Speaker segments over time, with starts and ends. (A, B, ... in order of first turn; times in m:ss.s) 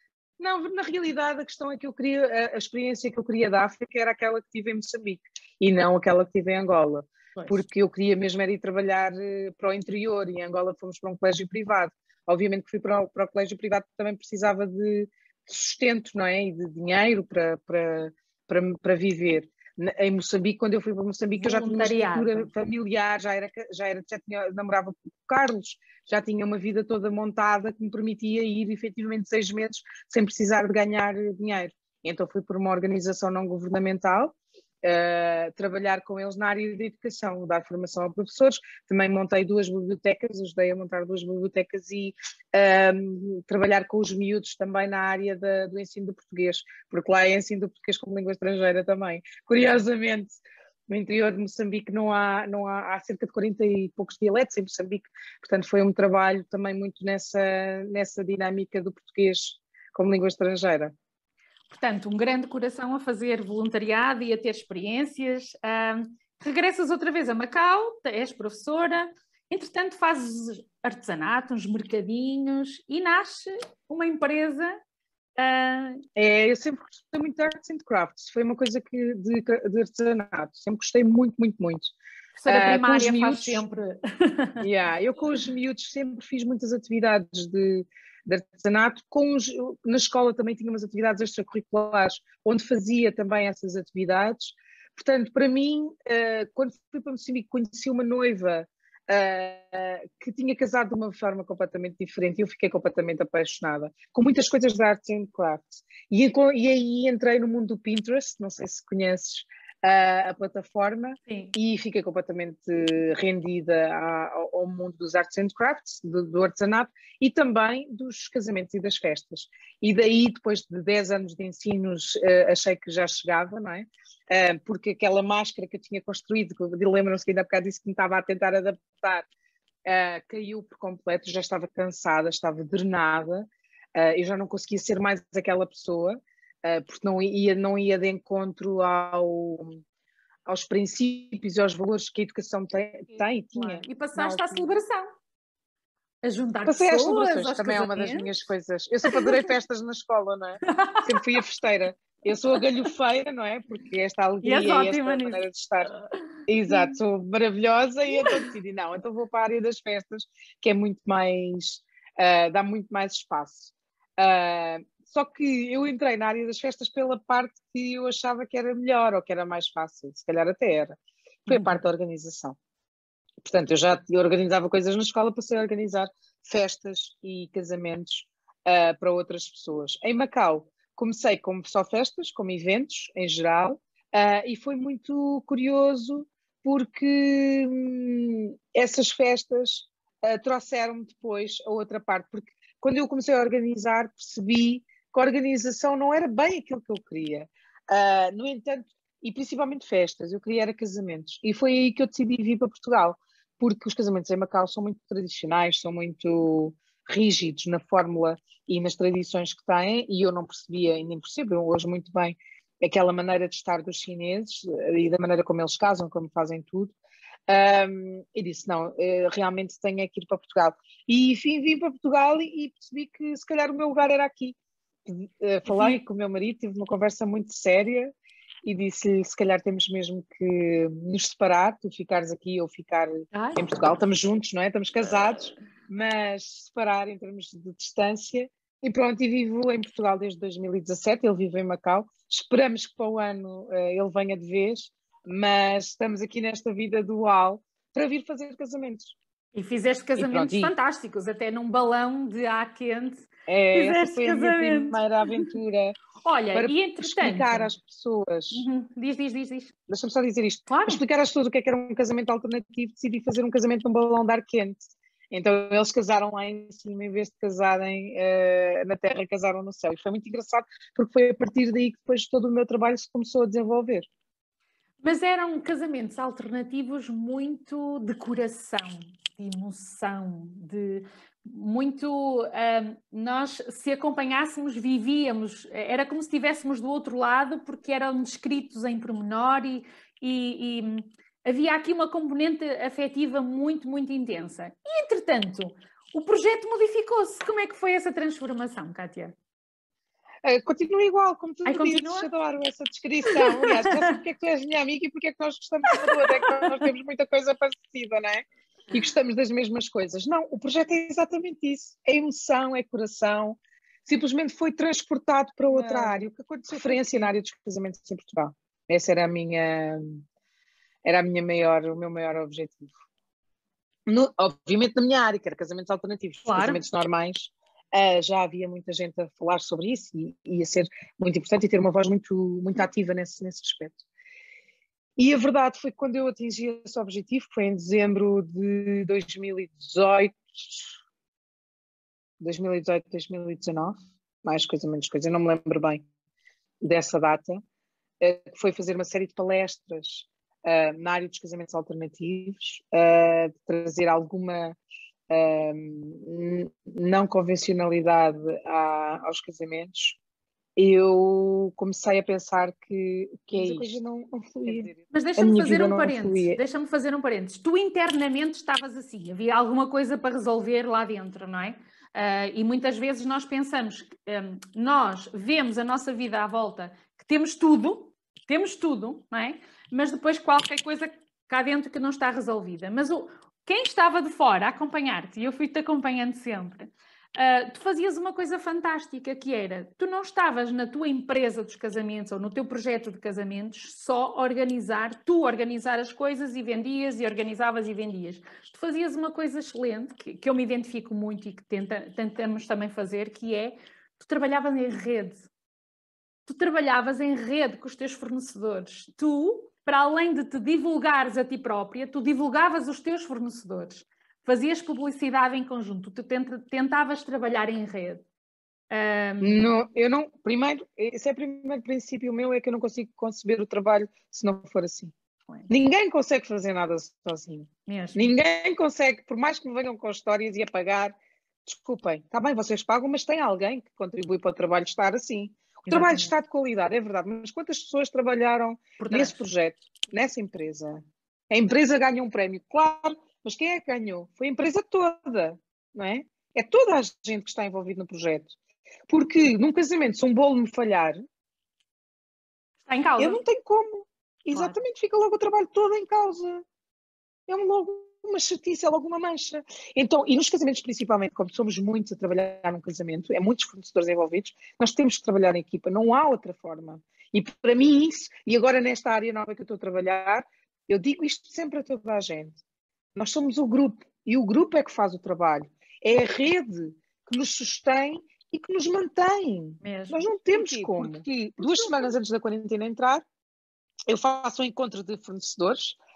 0:00.4-0:50.4 A
0:07.4-0:07.6 B
0:21.4-0:22.5 B
0:50.9-1:01.0 A
1:01.7-1:14.8 B
1:15.4-1:16.0 B
1:16.2-1:21.9 A
1:22.4-1:24.7 B
1:22.5-1:23.6 A
1:24.6-2:09.3 A
1:51.3-1:51.6 B
2:09.8-2:19.8 A
2:20.5-2:24.8 A
2:23.5-2:25.1 B
2:26.2-2:28.3 B
2:26.6-2:35.9 A
2:29.0-2:29.5 B
2:30.7-2:31.4 B
2:34.4-2:35.4 B
2:36.5-2:52.6 A
2:38.2-2:38.4 B
2:51.5-2:51.8 B
2:53.4-3:37.0 A
3:37.5-4:09.2 A
3:45.7-3:46.0 B
3:53.3-3:53.7 B
4:09.6-4:15.5 B
4:10.2-4:10.7 A
4:13.5-4:16.0 A
4:16.2-4:17.7 B
4:16.5-4:18.7 A
4:18.5-4:19.7 B
4:19.9-4:34.1 A
4:20.7-4:21.0 B
4:35.0-4:59.3 B
5:00.4-5:20.2 A
5:01.7-5:02.3 B
5:03.3-5:04.1 B
5:05.9-5:06.7 B
5:15.7-5:17.3 B
5:21.0-5:23.0 A
5:24.1-5:34.0 A
5:26.5-5:26.8 B
5:35.2-5:41.0 A
5:42.4-5:46.0 A
5:46.8-5:47.6 A
5:48.2-5:54.8 A
5:55.3-6:00.2 A
6:00.8-6:06.6 A
6:03.6-6:04.0 B
6:04.7-6:45.5 B
6:46.5-6:58.2 B
6:58.9-6:59.6 B
6:59.4-7:05.1 A
7:05.7-7:28.6 A
7:07.9-7:08.3 B
7:15.9-7:16.3 B
7:19.0-7:19.4 B
7:29.1-7:31.2 A
7:32.9-7:33.4 B
7:33.2-7:36.6 A
7:37.5-7:52.6 A
7:53.2-8:03.2 A
7:59.8-8:02.1 B
8:04.1-8:06.0 A